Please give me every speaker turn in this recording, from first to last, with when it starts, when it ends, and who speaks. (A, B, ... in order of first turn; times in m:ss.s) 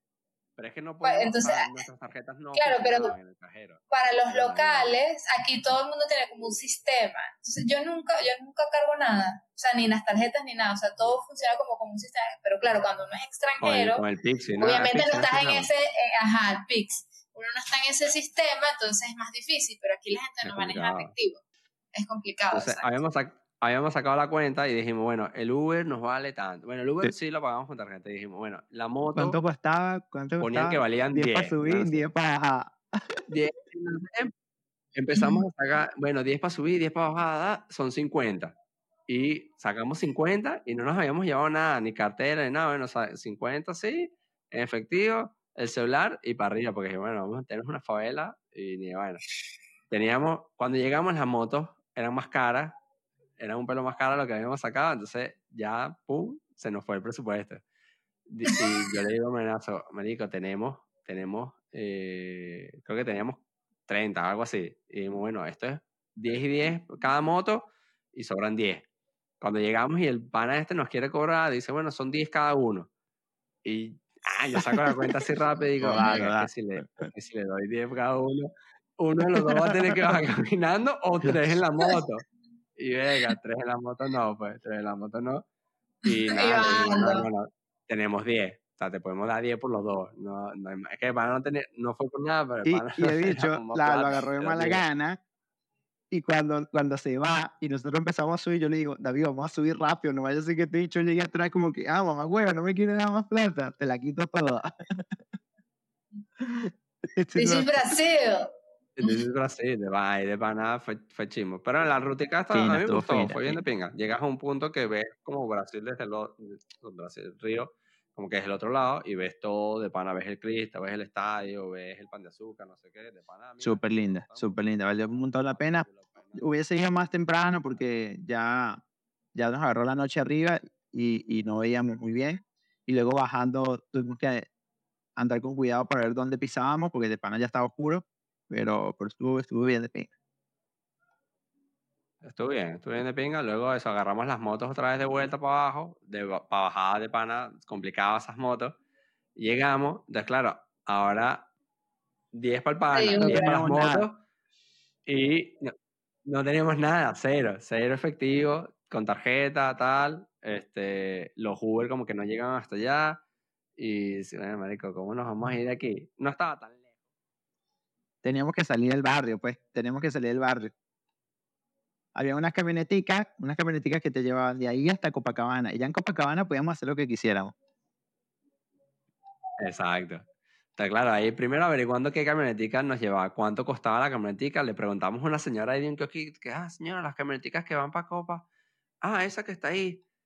0:00.6-0:04.9 A
0:01.0-0:01.8 B
0:02.5-0:03.1 B
0:03.9-0:14.0 B
0:13.6-0:15.7 A
0:14.6-0:21.4 B
0:20.4-0:21.1 A
0:21.9-0:22.9 B
0:22.5-0:29.4 A
0:29.1-0:33.2 C
0:30.4-0:32.0 A
0:33.3-0:34.3 A
0:34.9-0:38.5 A
0:35.1-0:35.4 B
0:39.1-0:49.2 A
0:49.9-0:52.8 A
0:53.4-0:57.6 A
0:58.3-1:08.8 A
1:09.4-1:12.9 A
1:13.6-1:22.2 A
1:14.6-1:15.1 C
1:15.8-1:17.1 C
1:22.8-1:25.4 A
1:26.0-1:34.8 A
1:26.4-1:27.2 B
1:32.6-1:35.2 C
1:36.1-1:45.2 C
1:46.4-1:47.7 C
1:47.3-1:48.5 B
1:49.0-2:04.6 A
1:52.5-1:53.6 C
2:03.6-2:08.8 C
2:05.4-2:06.4 A
2:09.3-2:14.5 C
2:15.2-2:20.1 C
2:22.2-2:28.7 A
2:29.4-2:31.5 A
2:32.3-2:34.2 A
2:32.9-2:33.6 B
2:33.2-2:34.1 C
2:35.0-2:35.7 A
2:36.2-2:43.2 A
2:43.8-2:46.8 A
2:48.2-2:50.7 C
2:52.1-2:57.5 C
2:59.6-3:00.2 A
3:00.8-3:08.4 A
3:09.0-3:10.0 A